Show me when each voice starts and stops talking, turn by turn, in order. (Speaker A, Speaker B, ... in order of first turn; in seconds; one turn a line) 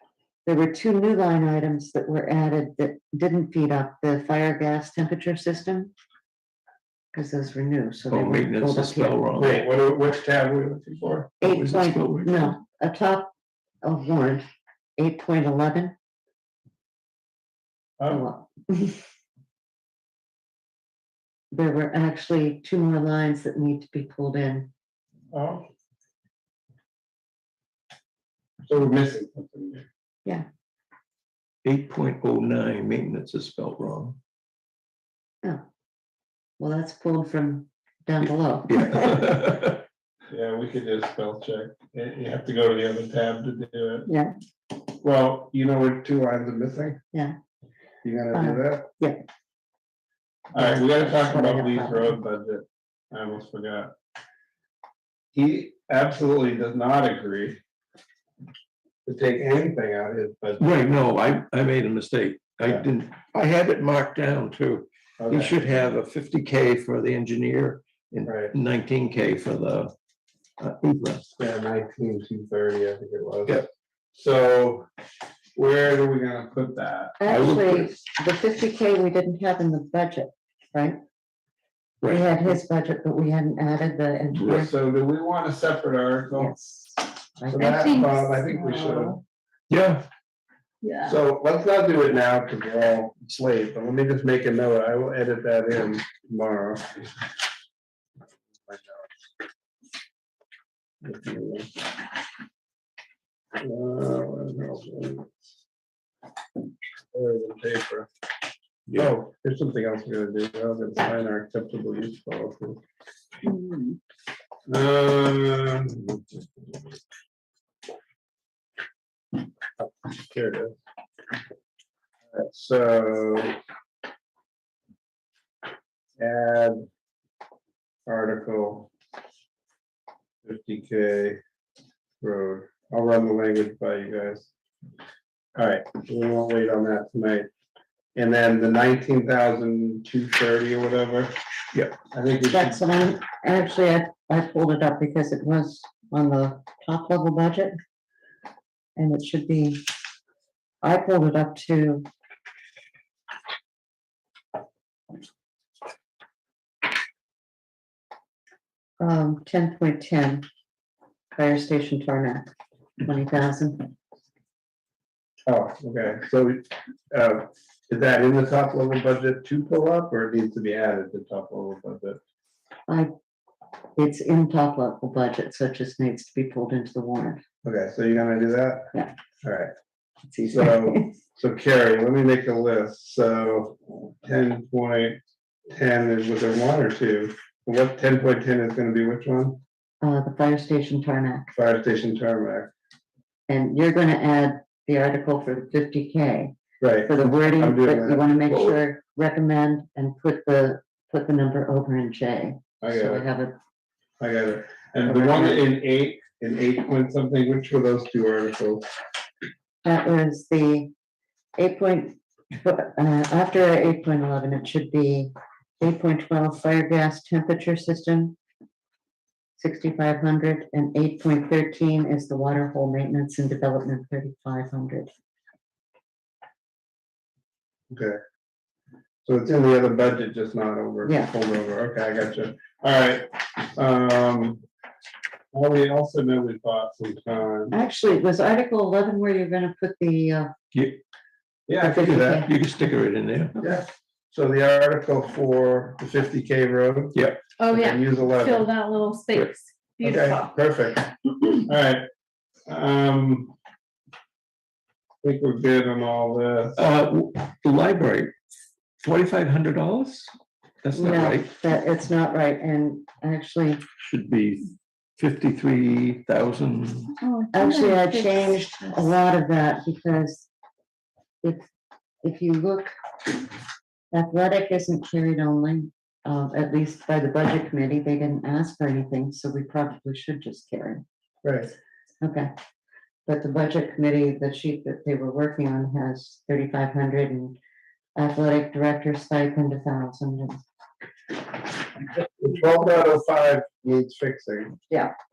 Speaker A: 0.5-5.9
Speaker A: 7.1-9.2
Speaker B: 8.1-9.6
Speaker C: 9.4-11.3
Speaker A: 11.4-13.3
Speaker B: 11.4-12.5
Speaker A: 13.8-14.4
Speaker A: 15.0-16.0
Speaker C: 18.0-18.3
Speaker A: 18.1-19.0
Speaker A: 21.5-24.7
Speaker C: 25.3-25.7
Speaker C: 28.7-29.9
Speaker B: 31.6-34.2
Speaker A: 36.6-39.4
Speaker B: 38.7-39.8
Speaker C: 40.3-44.1
Speaker A: 44.1-44.3
Speaker C: 45.0-47.0
Speaker C: 48.0-48.9
Speaker A: 48.3-49.2
Speaker C: 50.5-53.9
Speaker A: 50.5-52.2
Speaker C: 55.3-57.6
Speaker C: 59.0-60.7
Speaker B: 60.6-69.9
Speaker C: 65.2-65.5
Speaker C: 68.3-68.5
Speaker B: 70.6-71.3
Speaker C: 71.4-74.9
Speaker C: 75.6-77.2
Speaker A: 77.2-81.0
Speaker B: 77.3-78.0
Speaker B: 82.0-82.4
Speaker A: 82.0-84.7
Speaker C: 84.5-86.5
Speaker A: 86.3-88.2
Speaker C: 87.5-89.2
Speaker D: 87.6-89.2
Speaker B: 89.7-90.1
Speaker D: 90.8-91.2
Speaker C: 91.0-97.0
Speaker C: 98.6-99.1
Speaker C: 101.0-101.7
Speaker C: 103.6-105.3
Speaker C: 107.1-108.1
Speaker C: 108.9-112.8
Speaker D: 113.5-114.0
Speaker C: 114.7-116.2
Speaker C: 119.8-120.8
Speaker C: 122.3-123.6
Speaker C: 126.2-126.9
Speaker C: 128.1-128.9
Speaker C: 130.4-131.4
Speaker C: 132.2-134.5
Speaker C: 135.6-137.5
Speaker C: 138.1-141.3
Speaker C: 142.1-142.8
Speaker A: 142.5-147.8
Speaker A: 148.9-149.8
Speaker A: 150.8-152.1
Speaker A: 159.0-160.4
Speaker A: 161.3-162.5
Speaker A: 163.0-163.9
Speaker C: 165.5-172.2
Speaker A: 173.9-177.4
Speaker C: 177.6-178.9
Speaker C: 179.4-179.7
Speaker A: 180.3-181.1
Speaker C: 180.5-189.6
Speaker A: 190.0-191.5
Speaker C: 191.5-192.7
Speaker A: 193.5-196.5
Speaker C: 196.8-198.7
Speaker A: 197.0-203.5
Speaker C: 202.8-203.2
Speaker C: 204.2-208.8
Speaker A: 205.0-205.7
Speaker A: 209.8-210.9
Speaker A: 211.6-218.4
Speaker A: 219.6-225.1
Speaker C: 227.9-228.2
Speaker C: 229.2-234.6
Speaker A: 231.0-231.3
Speaker C: 235.5-237.8
Speaker A: 237.7-240.5
Speaker B: 240.7-241.0
Speaker C: 241.7-242.5
Speaker A: 241.8-242.5
Speaker B: 242.2-243.5
Speaker C: 243.6-247.2
Speaker B: 247.1-247.4
Speaker D: 247.6-250.5
Speaker C: 247.7-248.7
Speaker C: 250.0-252.0
Speaker C: 252.7-253.5
Speaker C: 255.2-256.8
Speaker B: 256.8-258.3
Speaker B: 259.0-260.3
Speaker B: 260.8-261.5
Speaker A: 260.9-263.8
Speaker B: 264.0-267.1
Speaker D: 267.2-269.1
Speaker A: 267.5-270.5
Speaker A: 271.4-271.7
Speaker A: 272.2-272.9
Speaker A: 274.1-281.0
Speaker C: 281.4-281.7
Speaker A: 282.2-282.5
Speaker A: 283.2-287.6
Speaker A: 288.1-290.6
Speaker C: 292.4-294.8